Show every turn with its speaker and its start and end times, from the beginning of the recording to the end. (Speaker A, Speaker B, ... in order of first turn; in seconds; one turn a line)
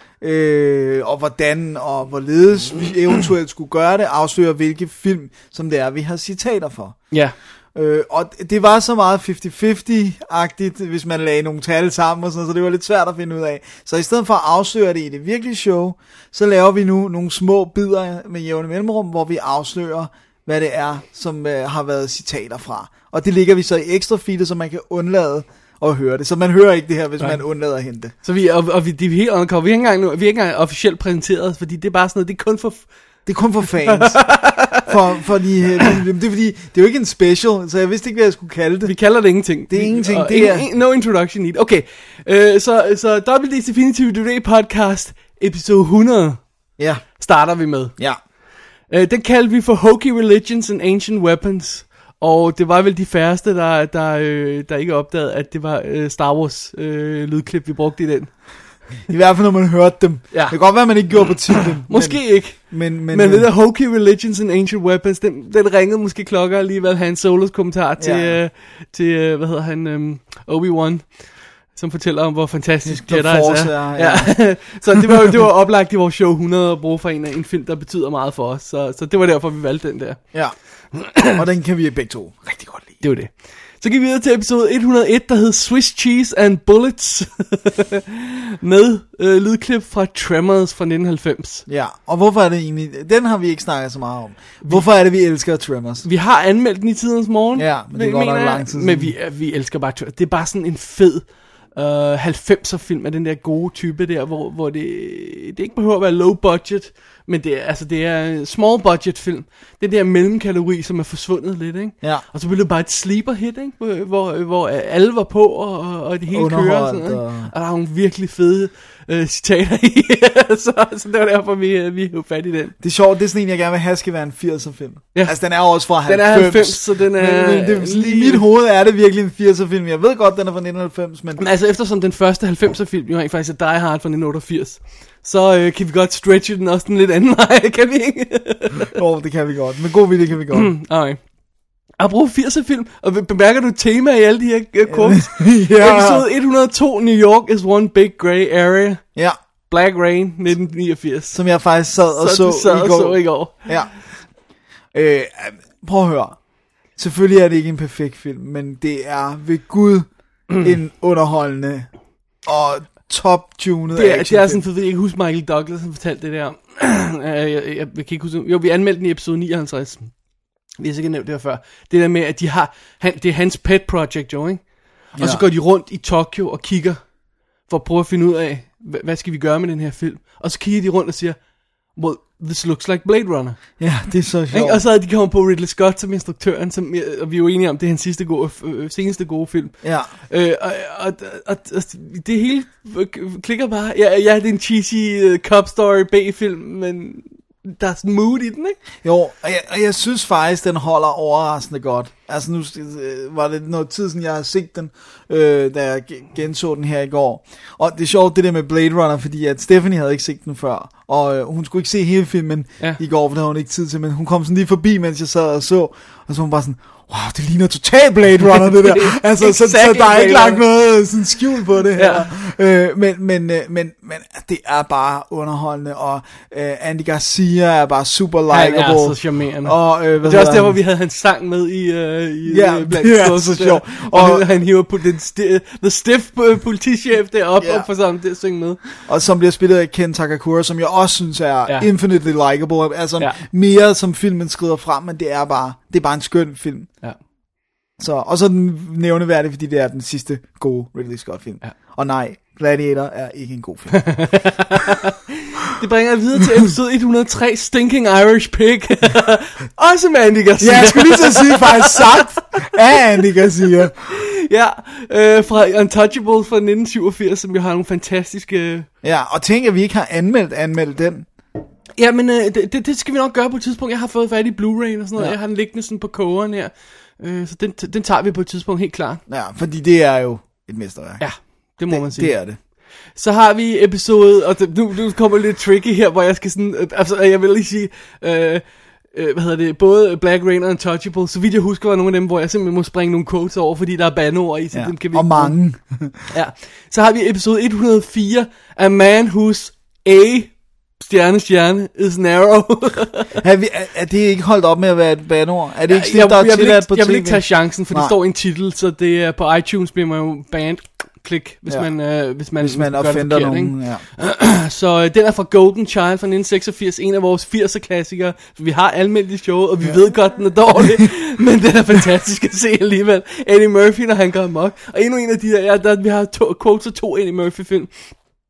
Speaker A: 0.2-7.0
Speaker A: 7.8-28.1
Speaker B: 28.2-32.9
Speaker A: 33.3-34.2
Speaker B: 33.8-34.9
Speaker A: 34.9-38.9
Speaker B: 38.9-46.4
Speaker A: 39.7-40.7
Speaker A: 46.8-47.0
Speaker B: 47.2-47.9
Speaker B: 48.9-58.3
Speaker A: 59.1-63.5
Speaker B: 60.3-60.6
Speaker B: 61.5-80.3
Speaker A: 68.0-68.4
Speaker A: 72.8-74.7
Speaker A: 80.3-83.0
Speaker B: 80.9-81.4
Speaker B: 83.0-91.7
Speaker A: 91.7-96.1
Speaker B: 96.0-122.8
Speaker A: 97.6-99.1
Speaker A: 116.3-117.5
Speaker A: 122.8-131.4
Speaker B: 125.1-128.4
Speaker B: 131.4-138.9
Speaker A: 138.9-140.7
Speaker B: 140.5-141.2
Speaker B: 142.0-149.0
Speaker A: 144.9-146.2
Speaker B: 149.7-151.4
Speaker A: 151.3-154.0
Speaker B: 152.1-153.8
Speaker A: 154.9-156.4
Speaker A: 157.0-161.9
Speaker A: 162.4-164.6
Speaker B: 163.9-170.1
Speaker B: 170.8-174.6
Speaker B: 175.2-177.0
Speaker A: 175.2-175.4
Speaker B: 177.7-181.4
Speaker B: 181.9-183.8
Speaker A: 183.8-184.8
Speaker B: 184.5-198.8
Speaker A: 189.8-190.1
Speaker A: 199.0-230.8
Speaker B: 218.8-220.6
Speaker B: 221.9-222.3
Speaker B: 228.5-238.8
Speaker A: 232.5-234.5
Speaker A: 237.6-237.9
Speaker A: 239.1-246.9
Speaker A: 248.0-254.3
Speaker B: 254.0-262.2
Speaker A: 260.6-264.1
Speaker B: 263.9-268.9
Speaker A: 269.0-271.3
Speaker B: 272.0-279.2
Speaker A: 279.3-281.2
Speaker B: 281.2-282.4
Speaker A: 281.9-282.6
Speaker B: 283.1-288.6
Speaker B: 289.1-295.6
Speaker A: 294.7-296.3
Speaker B: 296.3-303.4
Speaker A: 303.4-308.1
Speaker B: 305.9-327.9
Speaker A: 312.6-314.1